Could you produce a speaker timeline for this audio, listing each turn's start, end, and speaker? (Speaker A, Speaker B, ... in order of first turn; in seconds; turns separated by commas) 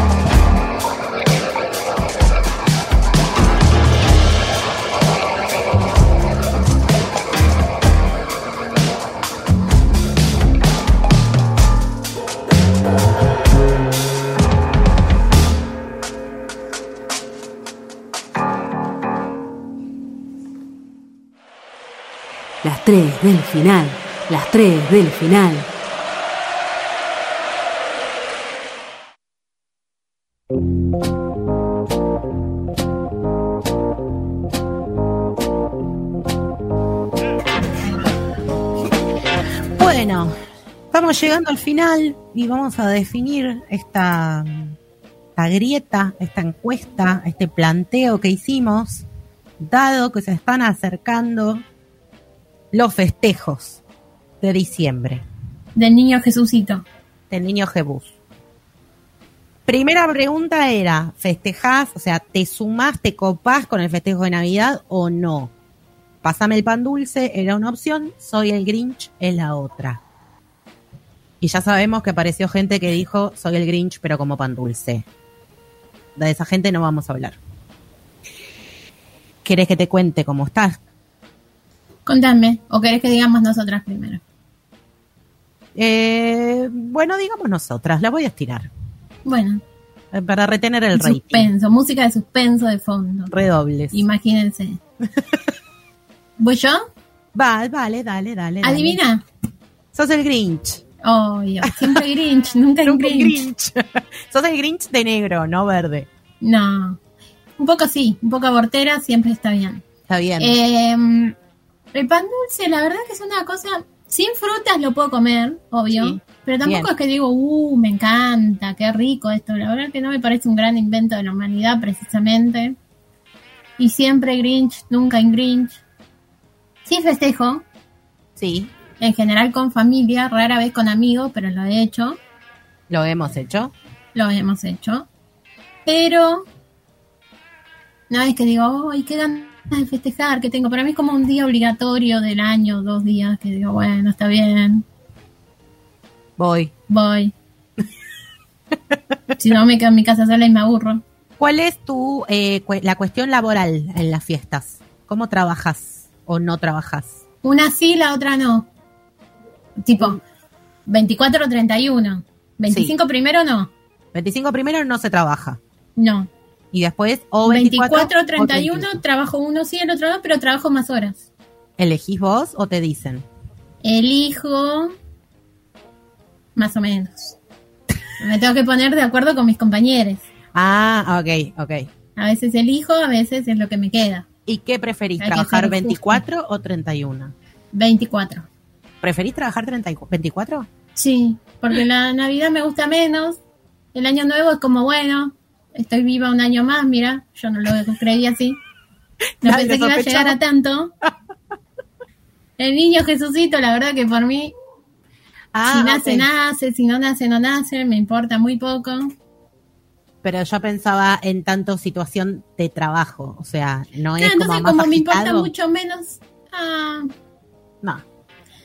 Speaker A: 22.6-25.7, Speaker B: 39.8-40.3, Speaker B: 40.9-44.7, Speaker B: 45.4-49.0, Speaker B: 49.6-51.6, Speaker B: 52.7-53.8, Speaker B: 54.4-55.2, Speaker C: 55.8-56.8, Speaker B: 57.3-58.1, Speaker B: 59.6-65.5, Speaker B: 66.2-70.0, Speaker B: 71.4-75.0, Speaker B: 76.2-77.4, Speaker B: 79.4-80.8, Speaker C: 82.0-84.2, Speaker B: 85.7-88.7, Speaker C: 89.2-89.6, Speaker B: 90.1-91.5, Speaker C: 90.9-93.3, Speaker B: 93.3-94.0, Speaker C: 93.9-94.8, Speaker C: 96.4-96.8, Speaker B: 97.3-99.0, Speaker C: 98.6-99.2, Speaker B: 99.9-100.8, Speaker C: 101.0-103.4, Speaker B: 101.6-102.0, Speaker B: 102.8-106.1, Speaker C: 106.4-107.0, Speaker C: 107.6-109.8, Speaker B: 110.1-110.5, Speaker C: 110.4-111.3, Speaker C: 111.9-122.8, Speaker B: 115.9-116.9, Speaker C: 123.8-125.8, Speaker C: 126.8-127.6, Speaker B: 128.3-128.7, Speaker C: 129.0-132.2, Speaker B: 132.9-133.7, Speaker C: 134.1-135.1, Speaker C: 135.8-136.4, Speaker C: 138.1-144.8, Speaker B: 146.4-146.7, Speaker C: 146.9-147.3, Speaker C: 149.4-151.0, Speaker B: 151.4-157.1, Speaker C: 157.4-158.7, Speaker C: 159.8-160.2, Speaker C: 160.9-163.7, Speaker B: 162.7-162.9, Speaker B: 164.1-165.6, Speaker C: 166.0-166.3, Speaker B: 166.7-169.0, Speaker C: 167.4-171.2, Speaker B: 171.8-173.2, Speaker C: 173.8-174.9, Speaker C: 176.6-177.4, Speaker C: 178.2-180.2, Speaker B: 180.5-181.9, Speaker C: 182.2-184.2, Speaker B: 184.5-187.3, Speaker C: 185.2-186.2, Speaker C: 187.7-188.5, Speaker B: 189.0-190.7, Speaker C: 190.9-193.4, Speaker C: 193.9-198.6, Speaker B: 199.4-200.4, Speaker C: 199.4-200.9, Speaker C: 202.6-204.5, Speaker B: 205.5-206.3, Speaker C: 205.7-209.1, Speaker B: 210.2-215.5, Speaker C: 214.2-217.1